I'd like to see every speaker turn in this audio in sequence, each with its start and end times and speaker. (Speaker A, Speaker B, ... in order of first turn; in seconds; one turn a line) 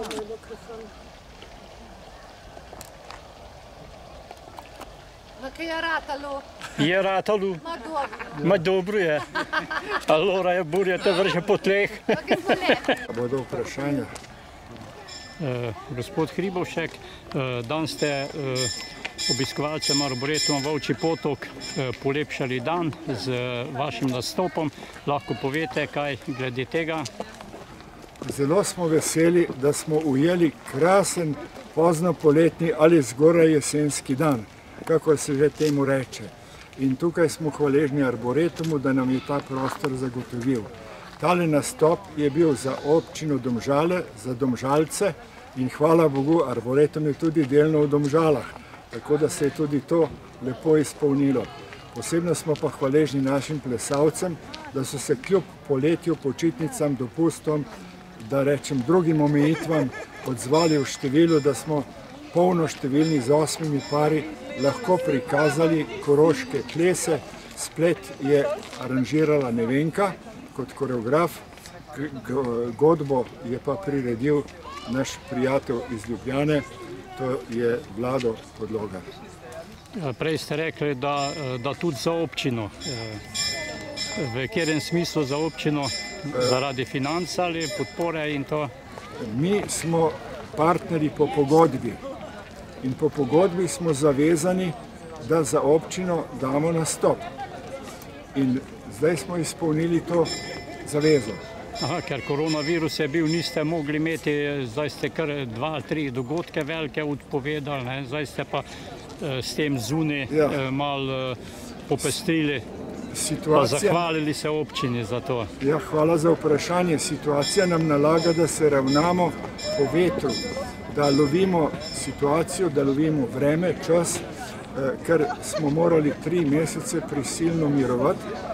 Speaker A: 5.4-6.5
Speaker B: 6.8-7.6
Speaker A: 7.6-8.6
Speaker B: 8.4-9.3
Speaker B: 9.9-12.9
Speaker A: 12.1-12.9
Speaker C: 13.1-14.1
Speaker B: 15.4-18.7
Speaker B: 19.3-27.1
Speaker C: 28.2-79.0
Speaker B: 80.0-83.2
Speaker B: 84.2-88.7
Speaker C: 89.2-92.0
Speaker C: 92.8-97.2
Speaker C: 98.3-100.3
Speaker C: 100.8-101.4
Speaker B: 101.8-108.7
Speaker B: 109.2-112.7
Speaker C: 110.3-110.6
Speaker C: 113.1-114.0
Speaker B: 113.5-115.5
Speaker C: 115.6-128.3